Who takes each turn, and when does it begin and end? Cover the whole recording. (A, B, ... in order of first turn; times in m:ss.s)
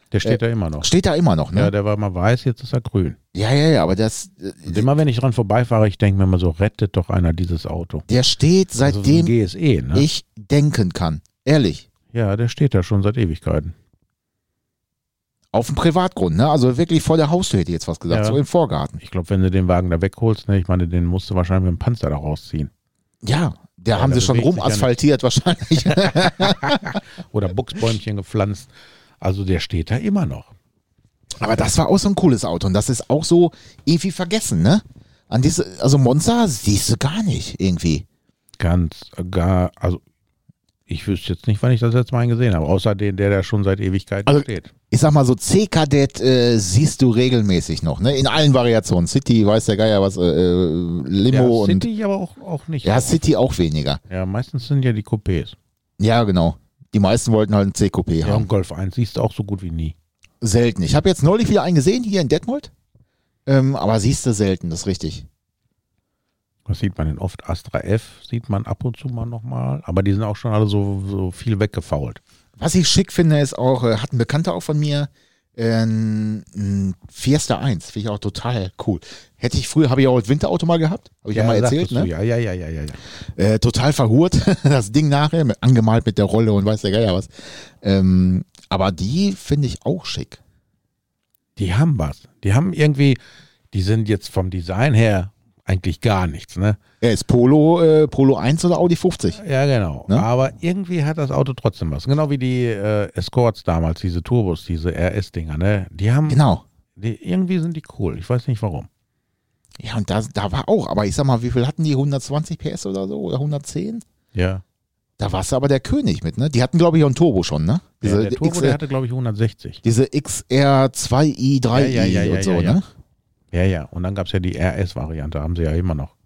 0:00.1-0:00.9 A
0:00.2-0:01.7 B
0:01.5-0:03.2 A
0:03.3-0:04.9 B
0:04.7-0:08.0 A
0:08.1-0:09.3 B
0:08.8-0:10.1 A
0:09.9-0:11.9 B
0:12.1-0:13.7 A
0:15.5-0:19.0 B
0:18.1-0:18.4 A
0:19.0-0:22.7 A
0:23.2-0:27.0 B
0:23.9-0:24.9 A
0:25.9-0:30.5 A
0:31.4-0:38.0 B
0:38.6-0:40.0 A
0:40.9-0:44.7 A
0:44.3-0:51.9 B
0:51.3-0:53.2 A
0:52.8-0:54.0 B
0:54.1-0:55.6 A
0:56.0-0:58.5 B
0:58.2-1:00.0 A
1:00.4-1:02.7 B
1:03.5-1:05.3 B
1:06.7-1:12.2 A
1:12.6-1:22.1 B
1:21.3-1:23.0 A
1:23.4-1:27.3 B
1:27.8-1:30.4 B
1:31.6-1:33.2 A
1:33.7-1:36.8 A
1:37.0-1:39.4 B
1:39.3-1:46.4 A
1:46.3-1:46.6 B
1:47.0-1:48.9 A
1:49.8-1:54.0 B
1:54.3-1:54.6 A
1:55.2-1:58.8 B
1:58.0-1:59.8 A
1:59.8-2:02.8 B
2:01.7-2:02.8 A
2:03.5-2:06.1 A